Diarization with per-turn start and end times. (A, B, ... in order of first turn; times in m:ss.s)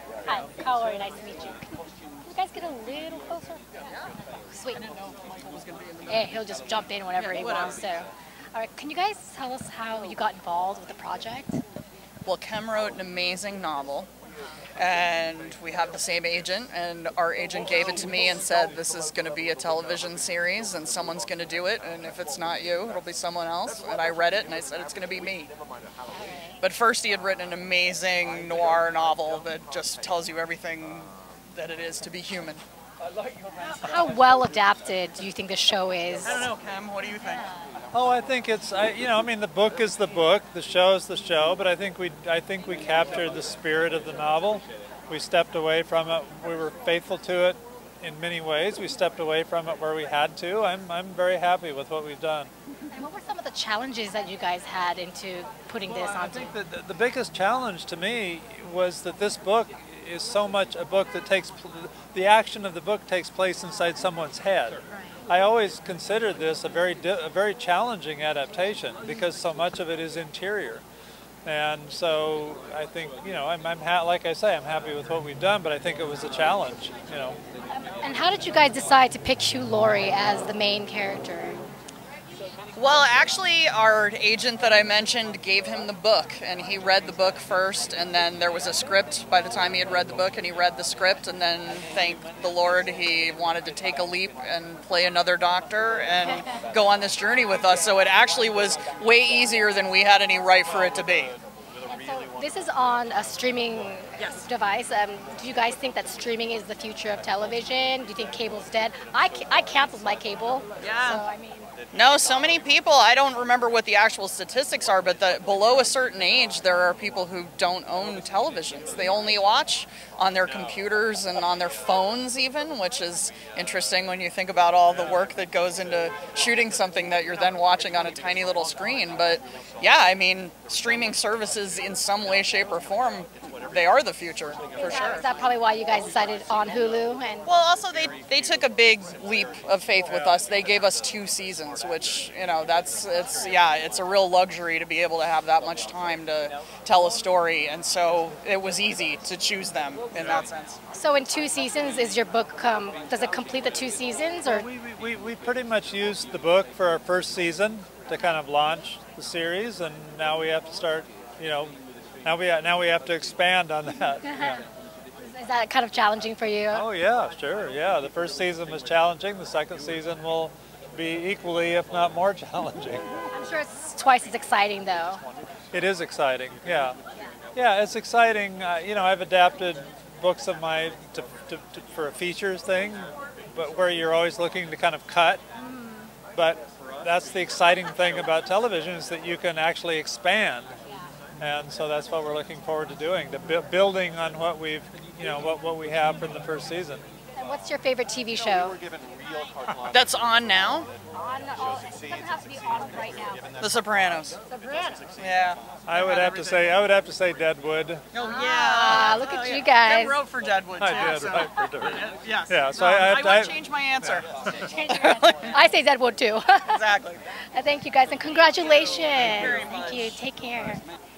0:00.2-0:03.6 A
0:04.5-0:04.9 A
0:05.6-0:06.0 B
0:06.1-0:11.6 A
0:07.2-0:07.9 B
0:12.2-0:14.1 B
0:14.8-0:25.5 B
0:26.2-0:26.5 A
0:26.6-0:32.6 B
0:33.7-0:36.5 A
0:36.2-0:37.5 B
0:37.9-0:52.5 C
0:52.9-0:56.5 A
0:55.9-1:10.8 C
1:11.4-1:17.4 C
1:17.7-1:21.6 A
1:22.8-1:41.3 B
1:41.9-1:51.7 A
1:50.8-1:51.2 B
1:51.9-2:15.2 B
2:14.8-2:17.5 A
2:17.5-2:30.8 B
2:20.0-2:20.4 C
2:30.9-2:34.7 A
2:34.5-2:41.7 C
2:42.2-2:44.6 C
2:44.2-2:44.6 A
2:45.2-2:46.9 A
2:46.7-2:53.0 C
2:53.3-2:55.2 A
2:55.7-2:57.0 C
2:57.6-3:05.4 C
3:05.6-3:06.1 A
3:06.3-3:10.7 C
3:11.4-3:17.0 C
3:17.4-3:18.8 A
3:19.9-3:20.9 B
3:21.1-3:23.5 A
3:23.6-3:24.4 B
3:24.5-3:25.1 A
3:25.2-3:26.7 B
3:25.9-3:28.0 C
3:28.1-3:34.3 B
3:28.2-3:30.2 A
3:30.8-3:34.7 C
3:34.6-3:36.8 A
3:34.9-3:35.5 B
3:36.7-3:37.2 B
3:37.4-3:40.8 A
3:38.9-3:40.2 B